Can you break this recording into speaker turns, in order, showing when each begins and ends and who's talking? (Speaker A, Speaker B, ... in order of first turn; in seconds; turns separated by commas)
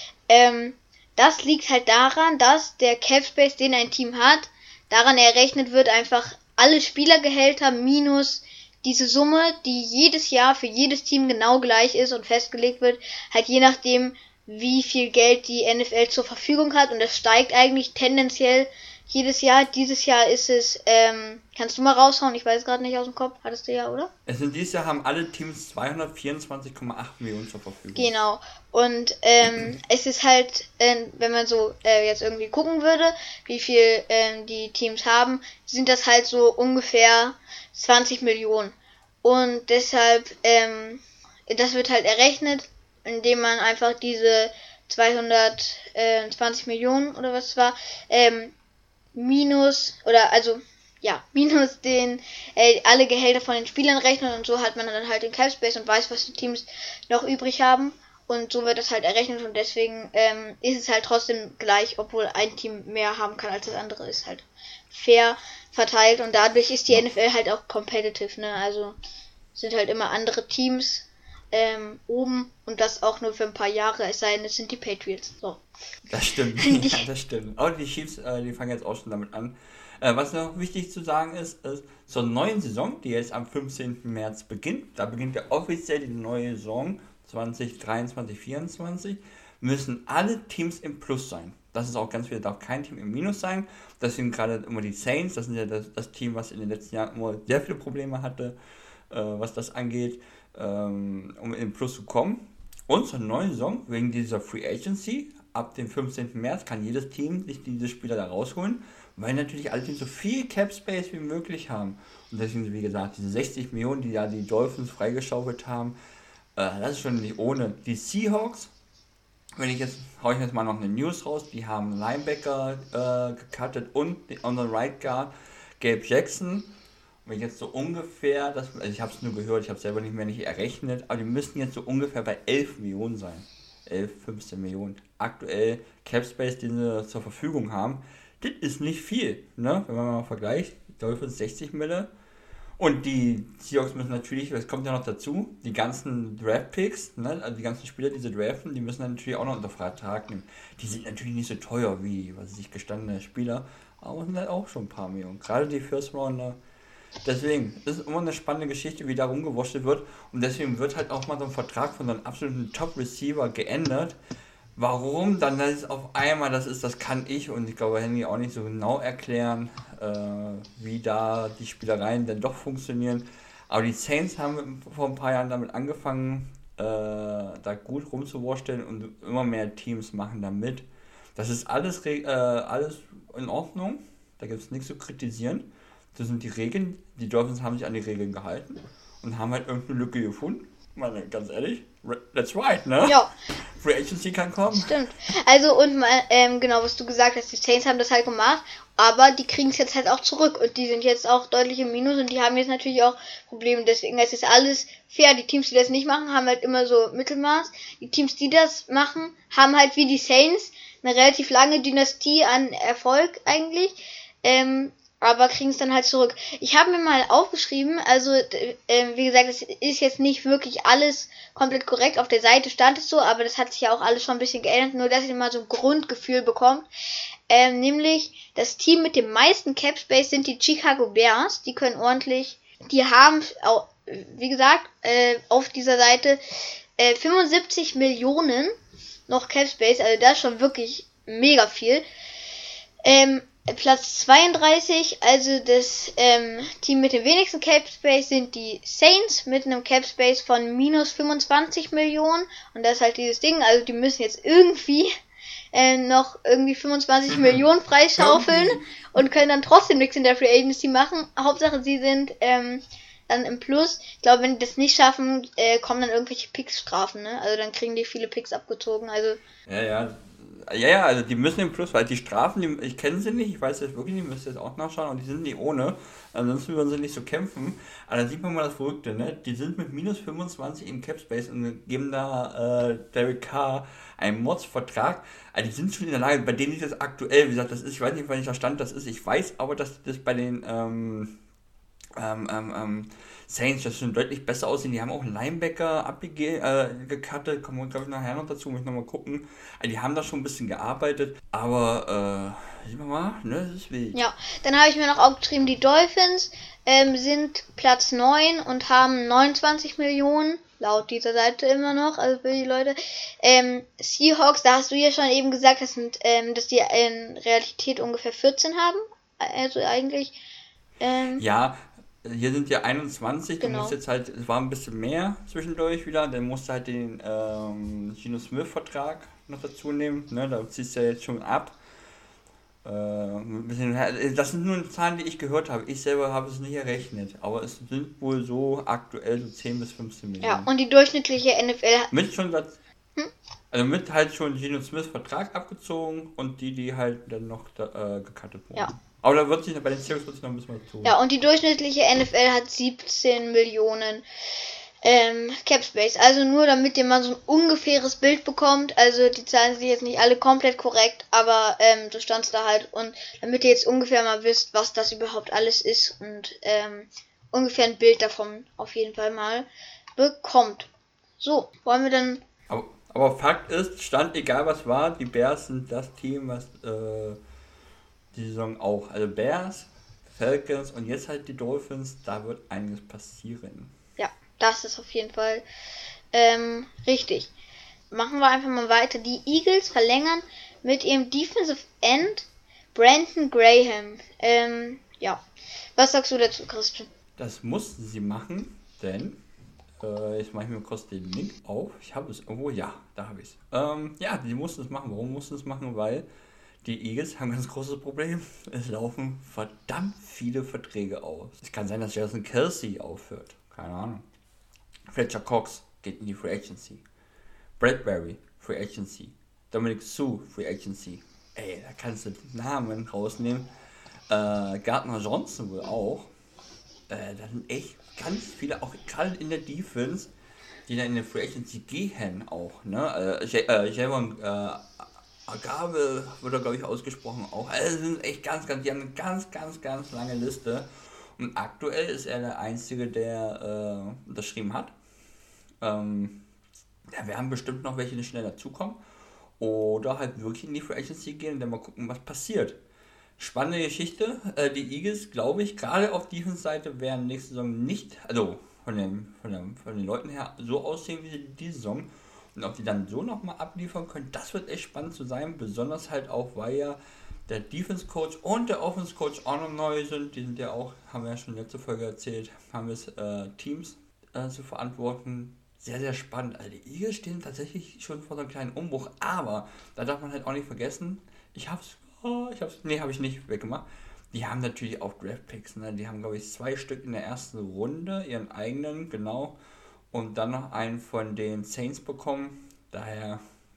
Speaker A: 0.3-24.1, Speaker B: 24.2-28.1, Speaker A: 27.9-48.5, Speaker A: 49.1-69.0, Speaker A: 69.5-75.6, Speaker B: 76.1-98.5, Speaker A: 76.6-77.0, Speaker B: 99.1-116.0, Speaker B: 116.5-118.7, Speaker B: 119.5-126.7, Speaker B: 127.2-142.1, Speaker B: 142.8-156.6, Speaker B: 157.2-164.2, Speaker B: 164.8-180.8, Speaker B: 181.3-194.9, Speaker A: 193.0-193.3, Speaker A: 194.7-226.9, Speaker A: 227.5-236.4, Speaker A: 237.0-238.7, Speaker A: 239.3-242.0, Speaker A: 243.0-255.1, Speaker A: 255.7-269.4, Speaker B: 257.3-257.6, Speaker B: 258.1-258.8, Speaker B: 269.7-291.4, Speaker B: 292.1-304.2, Speaker A: 304.1-320.4, Speaker A: 321.0-321.4, Speaker B: 321.4-331.8, Speaker A: 323.6-324.0, Speaker B: 332.8-340.7, Speaker A: 340.4-342.1, Speaker B: 342.1-342.8, Speaker B: 343.7-351.2, Speaker A: 351.0-354.2, Speaker A: 355.0-370.9, Speaker A: 371.4-372.4, Speaker B: 372.7-377.4, Speaker B: 378.3-383.9, Speaker A: 384.2-385.6, Speaker A: 386.3-387.5, Speaker A: 388.1-395.4, Speaker A: 396.0-397.1, Speaker B: 397.4-399.4, Speaker B: 400.0-406.2, Speaker B: 406.8-414.2, Speaker B: 415.1-417.0, Speaker B: 417.8-423.7, Speaker B: 424.3-426.3, Speaker B: 427.1-430.3, Speaker B: 430.9-444.9, Speaker B: 445.8-446.4, Speaker B: 447.1-449.0, Speaker B: 449.6-452.8, Speaker B: 453.4-489.6, Speaker B: 490.1-493.4